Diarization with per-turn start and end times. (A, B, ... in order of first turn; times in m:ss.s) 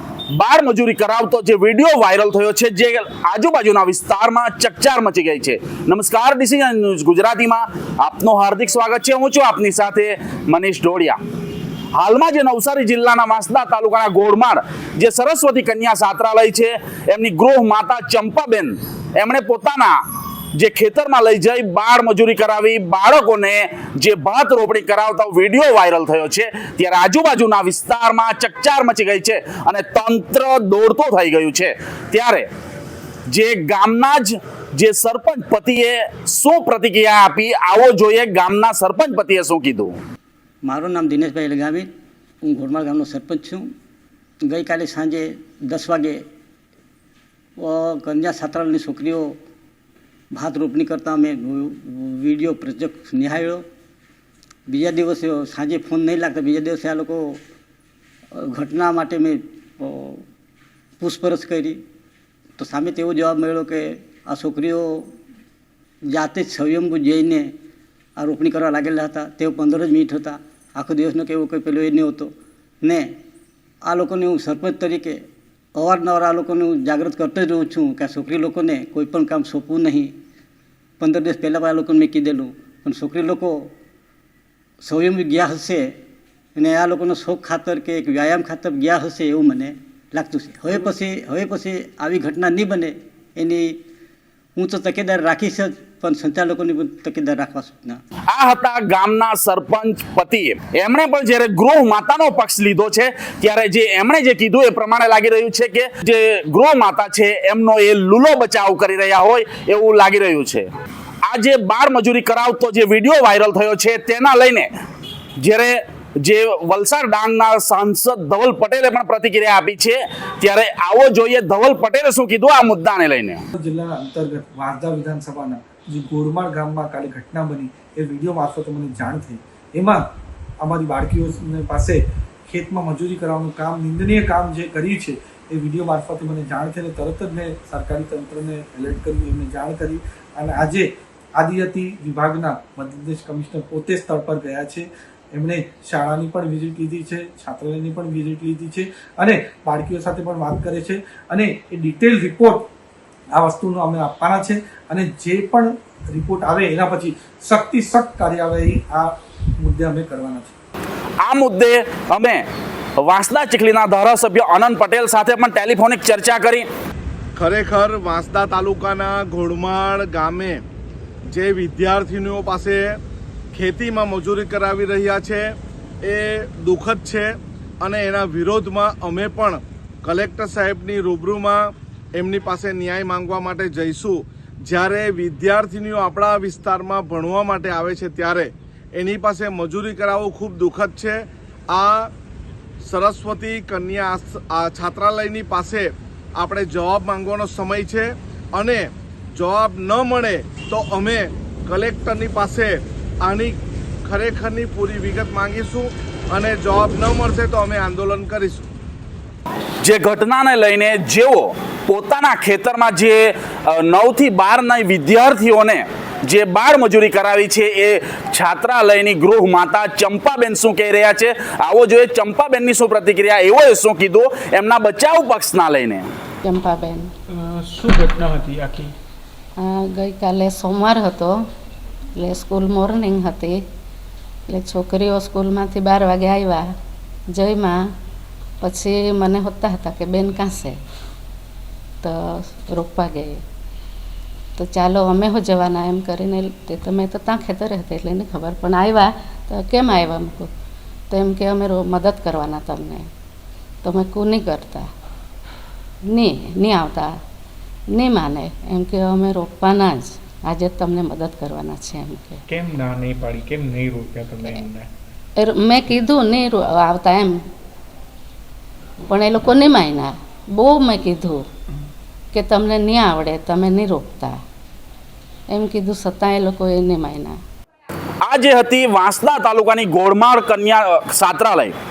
0:00.3-0:11.2 A
0:11.9-0:20.0 A
0:20.5-0:32.5 A
0:33.3-0:40.0 A
0:40.6-0:41.9 B
0:42.4-0:43.7 B
0:44.4-0:46.2 B
0:47.6-0:49.4 B
0:50.3-0:53.7 B
0:54.7-0:57.4 B
0:58.3-1:00.2 B
1:01.0-1:01.8 B
1:02.6-1:05.1 B
1:06.0-1:07.5 B
1:08.2-1:13.2 B
1:13.8-1:20.2 B
1:21.0-1:23.7 B
1:24.8-1:26.0 B
1:26.6-1:33.8 B
1:34.6-1:38.0 B
1:38.3-1:50.7 A
1:51.2-1:54.7 A
1:55.4-2:03.4 A
2:03.6-2:10.1 C
2:10.6-2:32.7 C
2:33.3-2:40.5 C
2:41.2-2:42.4 A
2:43.0-2:46.7 A
2:47.4-2:50.6 D
2:51.3-2:53.0 D
2:53.5-3:12.1 D
3:12.8-3:28.6 D
3:29.8-3:46.1 A
3:46.4-3:47.1 E
3:47.3-3:48.9 F
3:49.6-3:51.4 E
3:52.2-3:53.6 E
3:54.5-3:56.7 E
3:57.3-3:57.9 E
3:58.6-4:00.8 E
4:02.0-4:03.4 E
4:04.6-4:10.5 E
4:11.1-4:13.1 E
4:13.8-4:14.9 E
4:16.1-4:17.2 E
4:17.9-4:22.4 E
4:22.5-4:24.9 F
4:25.4-4:27.4 E
4:29.1-4:31.4 E
4:32.3-4:34.4 E
4:35.5-4:37.4 E
4:38.2-4:41.8 A